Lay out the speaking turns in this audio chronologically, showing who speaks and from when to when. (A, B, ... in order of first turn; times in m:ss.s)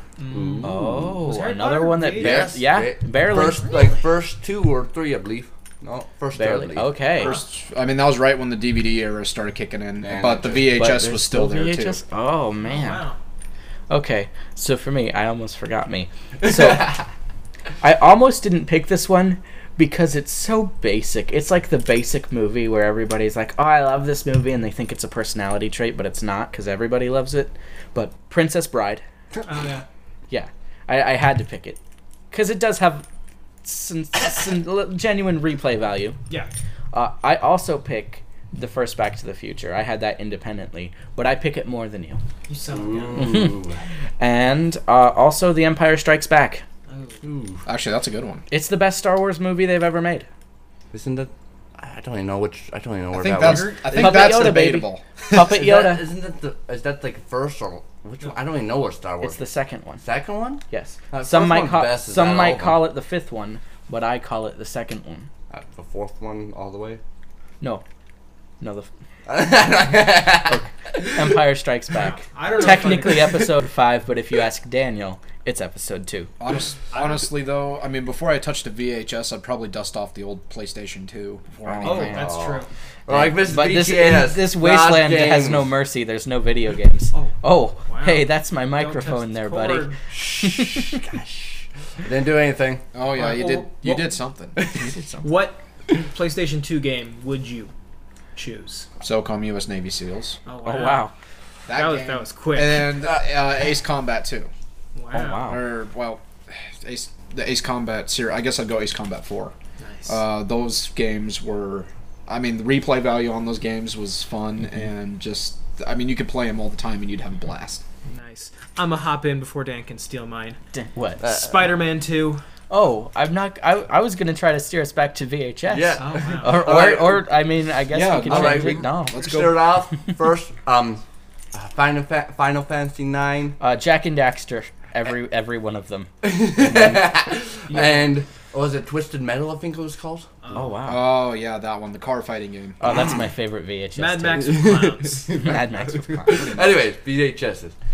0:00.2-0:02.5 A
0:00.3-0:01.2 B
0:00.6-0:03.7 C
0:02.2-0:07.0 B
0:06.3-0:07.4 C
0:07.2-0:12.0 D
0:10.0-0:10.7 B
0:10.7-0:13.0 C
0:12.6-0:13.2 A
0:13.9-0:17.0 C
0:17.8-0:29.0 C
0:29.4-0:29.8 A
0:30.3-0:31.8 C
0:32.3-0:33.0 C
0:33.6-0:36.2 C
0:36.9-0:42.2 C
0:42.5-0:43.3 A
0:42.7-0:43.8 B
0:43.2-0:43.6 C
0:44.2-0:46.6 C
0:46.9-0:47.2 A
0:47.2-0:47.6 B
0:47.6-0:48.4 D
0:48.5-0:50.2 C
0:50.9-0:54.3 B
0:53.1-0:55.6 D
0:53.9-0:56.0 C
0:55.4-0:59.4 B
0:59.2-1:00.0 C
1:00.0-1:02.9 B
1:00.7-1:05.3 C
1:05.5-1:07.0 B
1:08.6-1:08.9 C
1:09.3-1:11.4 B
1:10.4-1:16.3 C
1:12.2-1:13.4 A
1:16.4-1:22.2 D
1:16.9-1:17.3 A
1:21.6-1:22.3 C
1:21.8-1:22.7 A
1:22.1-1:25.7 B
1:23.1-1:29.9 C
1:27.9-1:30.0 A
1:30.1-1:32.9 B
1:30.4-1:31.0 C
1:32.9-1:34.6 D
1:33.1-1:33.8 A
1:34.6-1:34.9 B
1:34.7-1:35.3 C
1:35.2-1:37.7 A
1:38.4-1:38.9 A
1:39.0-1:40.4 D
1:40.4-1:41.1 A
1:40.6-1:41.1 C
1:41.7-1:44.5 D
1:41.7-1:42.9 A
1:43.0-1:43.3 B
1:44.9-1:45.4 A
1:45.1-1:45.7 C
1:45.4-1:49.5 D
1:49.8-1:50.2 A
1:50.1-1:57.8 D
1:58.0-2:00.6 A
2:00.7-2:01.2 C
2:01.2-2:01.7 B
2:01.2-2:02.4 A
2:02.7-2:09.2 C
2:05.7-2:07.2 B
2:06.0-2:06.6 A
2:07.9-2:09.6 D
2:08.2-2:11.0 B
2:11.5-2:13.6 B
2:13.6-2:17.0 C
2:16.2-2:20.3 B
2:17.7-2:18.1 A
2:20.4-2:20.7 A
2:20.5-2:21.1 C
2:20.8-2:22.8 D
2:22.8-2:24.6 C
2:22.8-2:23.2 B
2:23.9-2:25.3 A
2:24.6-2:27.7 B
2:25.3-2:26.6 C